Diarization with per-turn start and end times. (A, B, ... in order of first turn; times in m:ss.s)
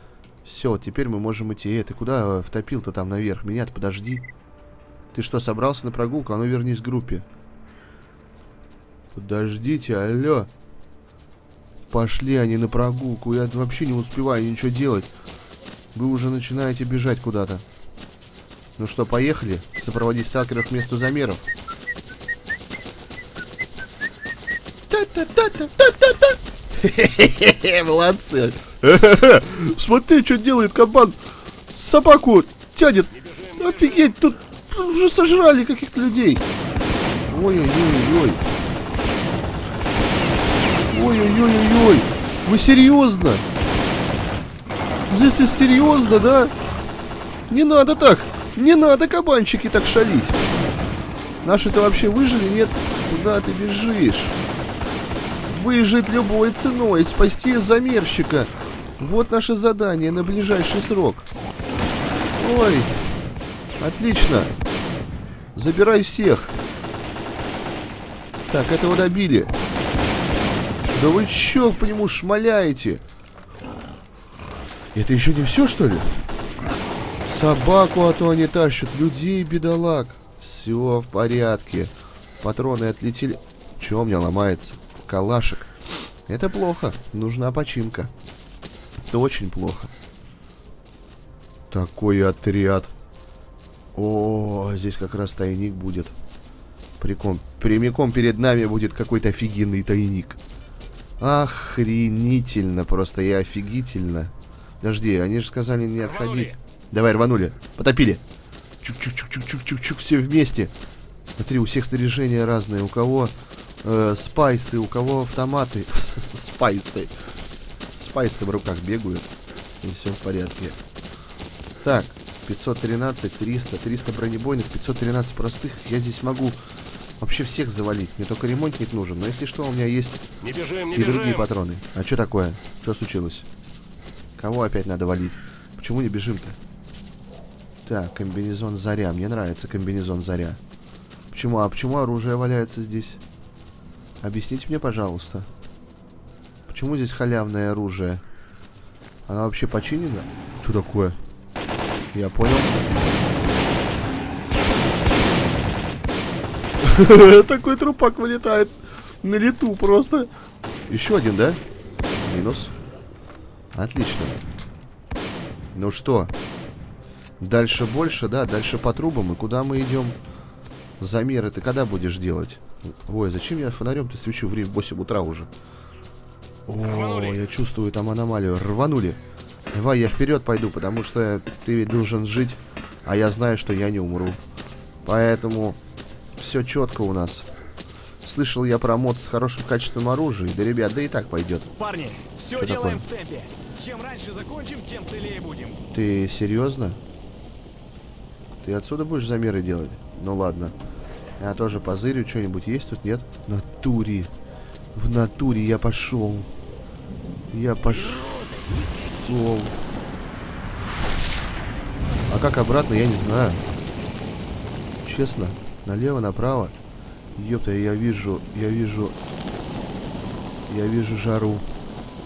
0:00.4-0:04.2 A
0:05.1-0:07.2 A
0:09.1-0:10.5 A
0:11.9-0:15.1 A
0:15.9-0:17.6 A
0:18.8-0:21.4 A
0:24.9-0:31.2 A
0:31.7-0:36.4 A
0:33.1-0:34.1 B
0:37.3-0:38.4 A
0:40.9-0:43.4 A
0:45.1-0:46.5 A
0:47.5-0:50.4 A
0:51.4-0:54.4 A
0:55.4-1:01.3 A
1:02.4-1:03.0 A
1:03.8-1:04.5 A
1:05.5-1:06.5 A
1:08.5-1:09.5 A
1:10.9-1:13.0 A
1:14.9-1:16.2 A
1:17.2-1:25.7 A
1:26.3-1:28.1 A
1:29.1-1:29.9 A
1:31.7-1:32.9 A
1:33.9-1:36.1 A
1:37.0-1:40.4 A
1:41.2-1:48.2 A
1:46.0-1:46.5 B
1:48.8-1:50.7 A
1:51.4-1:57.1 A
1:58.0-1:59.3 A
1:59.8-2:00.8 A
2:01.8-2:06.6 A
2:07.2-2:10.2 A
2:10.4-2:11.5 B
2:10.9-2:13.5 A
2:14.4-2:16.6 A
2:17.8-2:20.6 A
2:21.3-2:23.2 A
2:24.2-2:25.5 A
2:26.7-2:28.2 A
2:29.3-2:31.2 A
2:32.1-2:32.8 A
2:36.8-2:40.3 A
2:40.9-2:41.6 A
2:42.2-2:42.7 A
2:43.7-2:44.4 A
2:45.7-2:46.3 A
2:47.4-2:50.2 A
2:51.0-2:55.5 A
2:56.7-2:59.2 A
2:56.8-2:57.4 B
2:59.7-3:04.4 A
3:05.0-3:05.8 A
3:06.4-3:07.5 A
3:08.2-3:11.7 A
3:11.8-3:15.8 C
3:12.5-3:13.0 A
3:15.9-3:17.0 A
3:18.6-3:20.7 A
3:21.4-3:24.3 A
3:24.9-3:26.5 A
3:27.5-3:28.5 A
3:29.2-3:29.8 A
3:32.3-3:33.6 A
3:35.0-3:36.7 A
3:37.4-3:39.1 A
3:40.7-3:41.6 A